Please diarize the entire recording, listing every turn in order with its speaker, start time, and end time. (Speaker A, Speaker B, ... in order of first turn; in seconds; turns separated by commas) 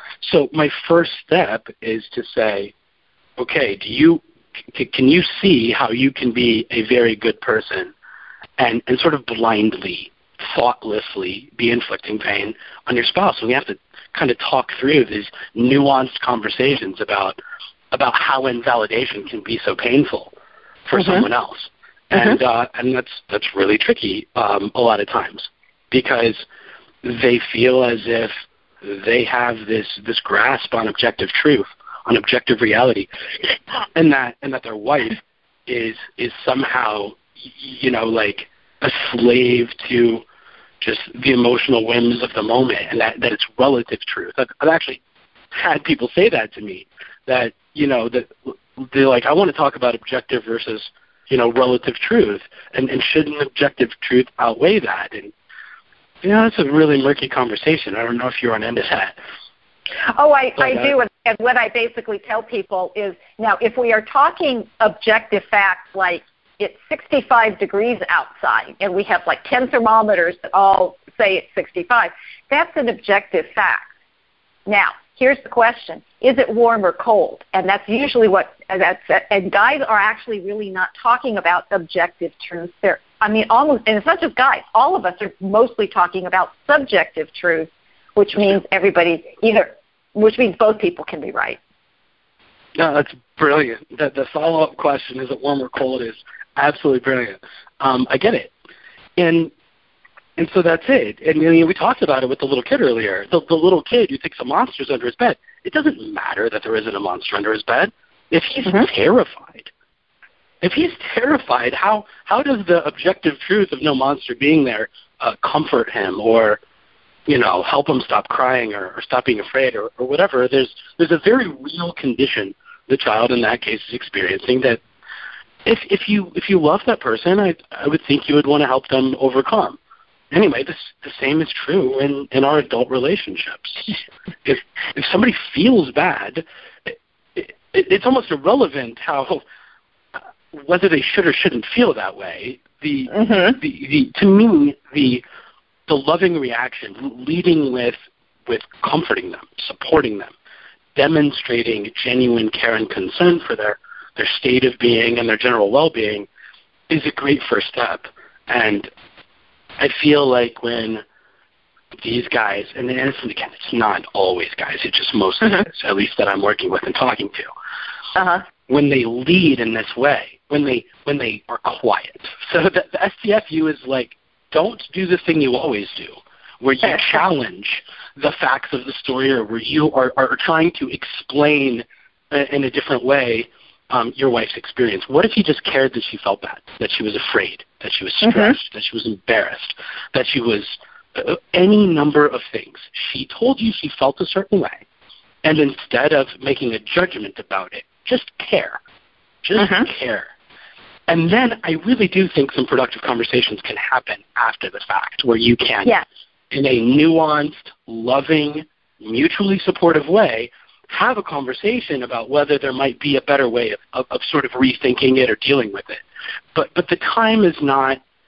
Speaker A: 0.2-2.7, Speaker A: 3.4-7.9, Speaker A: 8.6-17.4, Speaker A: 17.9-20.3, Speaker A: 20.9-26.4, Speaker B: 21.0-21.2, Speaker A: 27.0-40.2, Speaker A: 40.8-45.0, Speaker A: 45.5-55.3, Speaker A: 56.2-59.1, Speaker B: 60.1-73.9, Speaker A: 60.6-60.9, Speaker B: 74.7-91.6, Speaker A: 92.8-98.5, Speaker A: 99.2-99.5, Speaker A: 100.4-109.7, Speaker A: 110.6-116.6, Speaker A: 117.3-124.8, Speaker A: 125.6-129.8, Speaker A: 130.3-139.4, Speaker A: 140.2-145.2, Speaker B: 143.1-143.6, Speaker A: 145.9-147.9, Speaker A: 148.5-150.3, Speaker A: 150.9-156.3, Speaker A: 156.9-158.9, Speaker A: 159.8-161.0, Speaker A: 162.0-167.5, Speaker B: 168.2-168.4, Speaker A: 168.7-194.8, Speaker B: 188.2-188.6, Speaker A: 195.4-198.8, Speaker A: 199.4-200.3, Speaker B: 199.6-199.9, Speaker A: 201.1-205.9, Speaker A: 206.5-216.0, Speaker A: 216.5-218.0